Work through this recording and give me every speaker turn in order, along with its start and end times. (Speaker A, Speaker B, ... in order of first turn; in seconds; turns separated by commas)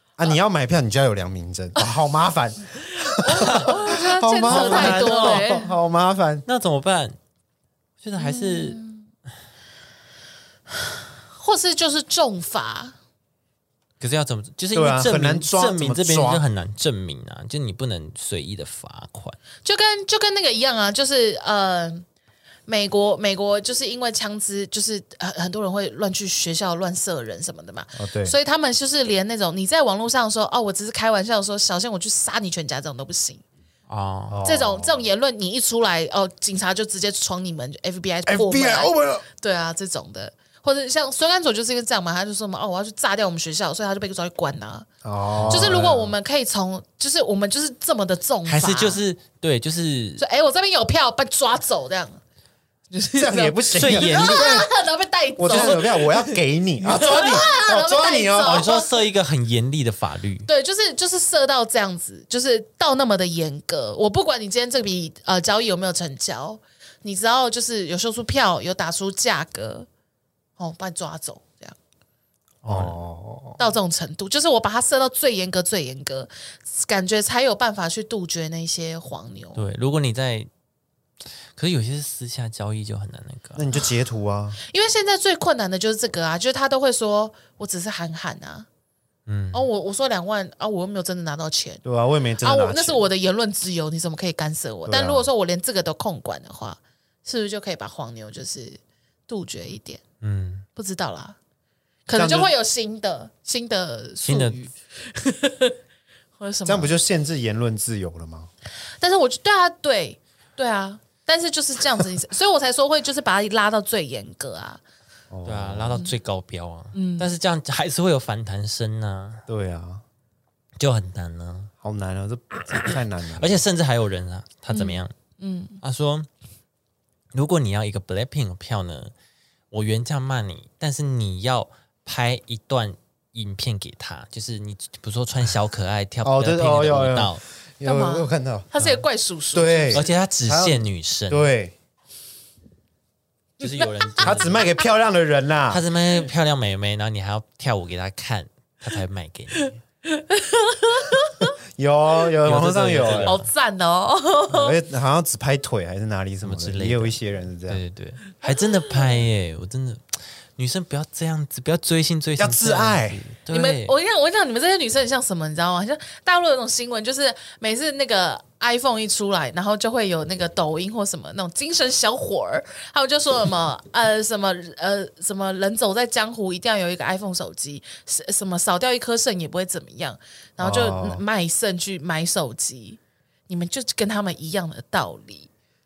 Speaker A: 0.2-6.4, Speaker B: 3.0-5.8, Speaker C: 4.4-5.5, Speaker C: 6.5-7.2, Speaker C: 8.0-8.8, Speaker B: 8.2-9.0, Speaker B: 10.7-12.9, Speaker C: 14.0-19.4, Speaker A: 14.7-16.4, Speaker B: 19.6-22.1, Speaker B: 22.7-33.4, Speaker A: 28.0-28.4, Speaker C: 33.9-34.4, Speaker A: 34.3-35.0, Speaker B: 34.4-44.9, Speaker A: 38.2-39.2, Speaker A: 45.0-46.1, Speaker C: 45.3-45.8, Speaker B: 45.5-49.0, Speaker C: 48.5-50.2, Speaker B: 50.2-52.2, Speaker B: 52.9-59.0, Speaker A: 53.1-54.7, Speaker C: 53.7-54.5, Speaker A: 55.4-58.8, Speaker C: 58.4-60.5, Speaker B: 60.5-69.9, Speaker B: 70.6-71.8, Speaker C: 72.6-73.0, Speaker A: 72.7-73.6, Speaker B: 73.6-79.6, Speaker C: 79.5-80.5, Speaker C: 81.5-83.7, Speaker A: 83.5-84.6, Speaker B: 84.6-88.7, Speaker C: 89.3-89.7, Speaker B: 89.5-91.8, Speaker A: 91.8-93.1, Speaker B: 92.4-100.0, Speaker A: 94.8-95.2, Speaker C: 100.2-100.6, Speaker B: 100.8-101.4, Speaker B: 102.1-105.8, Speaker A: 102.1-102.5, Speaker C: 104.2-104.6, Speaker B: 106.4-106.9, Speaker A: 106.7-108.5, Speaker B: 109.0-114.8, Speaker A: 115.3-116.0, Speaker C: 115.4-119.5, Speaker B: 116.9-117.3, Speaker A: 119.5-120.0, Speaker C: 120.8-121.7, Speaker A: 121.8-123.6, Speaker C: 122.8-125.1, Speaker B: 124.7-125.8, Speaker C: 125.8-126.3, Speaker C: 127.3-129.1, Speaker C: 129.7-137.4, Speaker A: 136.2-138.7, Speaker B: 137.8-140.1, Speaker A: 139.5-141.7, Speaker C: 139.9-141.5, Speaker C: 143.6-144.7, Speaker B: 143.6-144.6, Speaker A: 144.2-145.8, Speaker C: 145.7-149.8, Speaker B: 150.1-151.5, Speaker A: 151.8-153.4, Speaker C: 152.4-153.5, Speaker B: 153.1-154.8, Speaker A: 154.5-157.8, Speaker C: 156.4-163.9, Speaker B: 158.5-159.2, Speaker A: 162.4-163.2, Speaker B: 163.5-185.5, Speaker A: 180.6-181.2